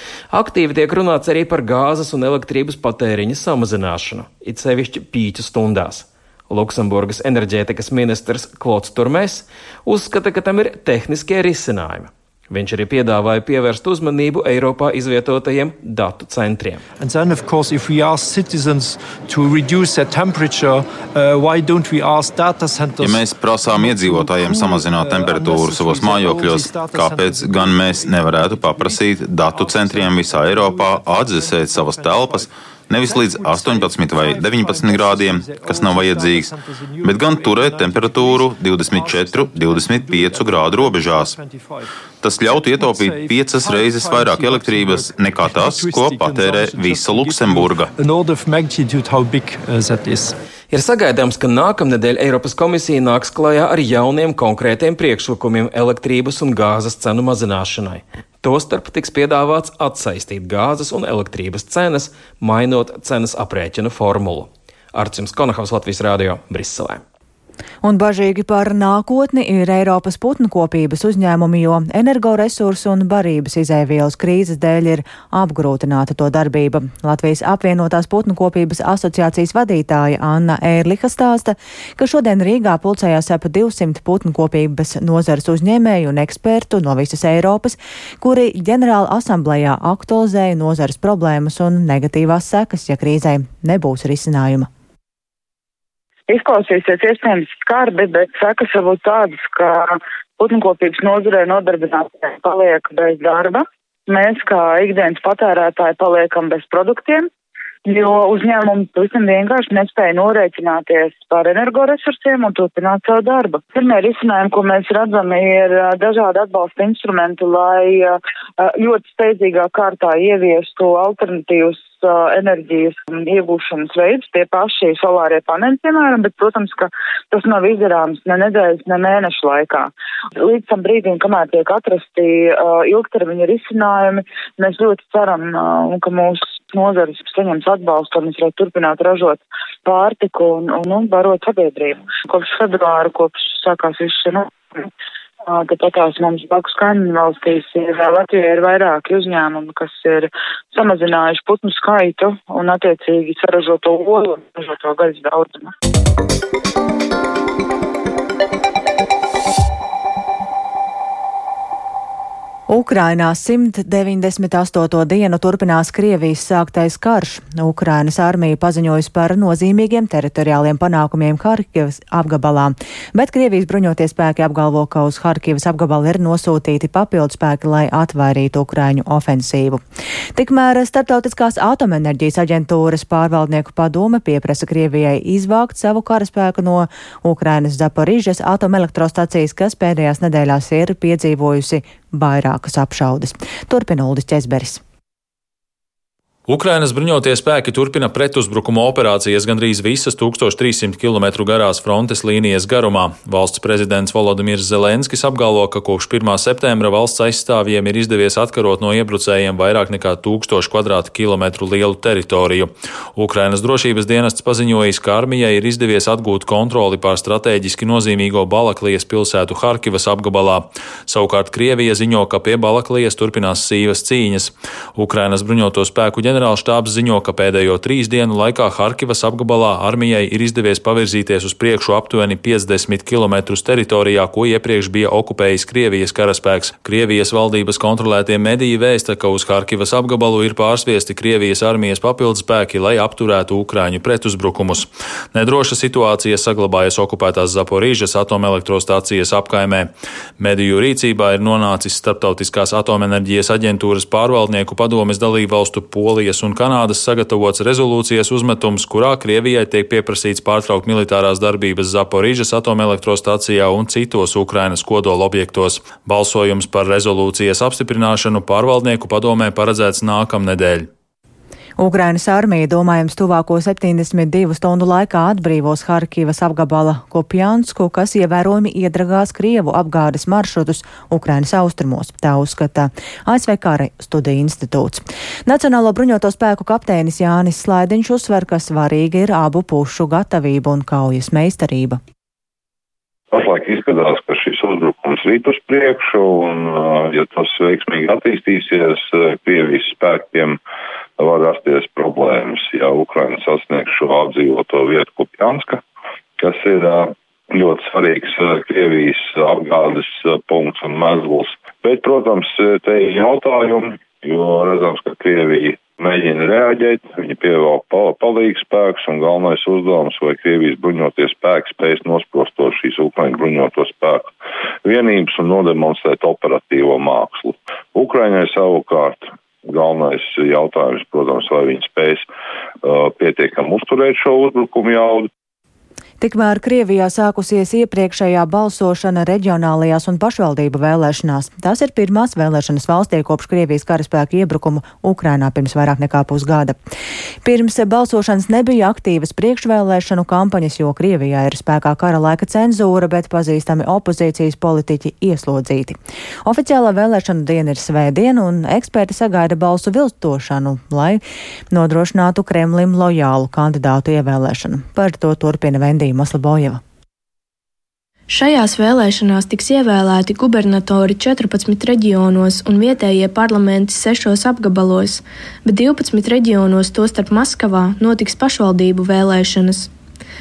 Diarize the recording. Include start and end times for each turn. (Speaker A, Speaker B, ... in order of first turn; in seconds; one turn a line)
Speaker A: 0.3-16.8
Speaker B: 17.0-23.2
Speaker C: 23.0-41.4
Speaker B: 23.8-29.0
Speaker B: 29.6-32.5
Speaker B: 33.0-41.9
Speaker C: 42.2-47.9
Speaker B: 42.5-50.3
Speaker A: 50.7-67.0
Speaker D: 67.8-94.7
Speaker E: 96.3-107.3
Speaker E: 107.8-129.9
Speaker E: 130.4-144.9
Speaker E: 145.4-155.7
Speaker D: 162.7-179.8
Speaker D: 180.3-194.8
Speaker F: 196.5-270.9
Speaker D: 271.8-292.0
Speaker G: 293.3-300.6
Speaker G: 301.2-305.8
Speaker G: 306.4-324.3
Speaker G: 324.8-332.2
Speaker G: 332.8-335.3
Speaker D: 336.2-346.8
Speaker D: 347.4-366.8
Speaker H: 368.3-379.9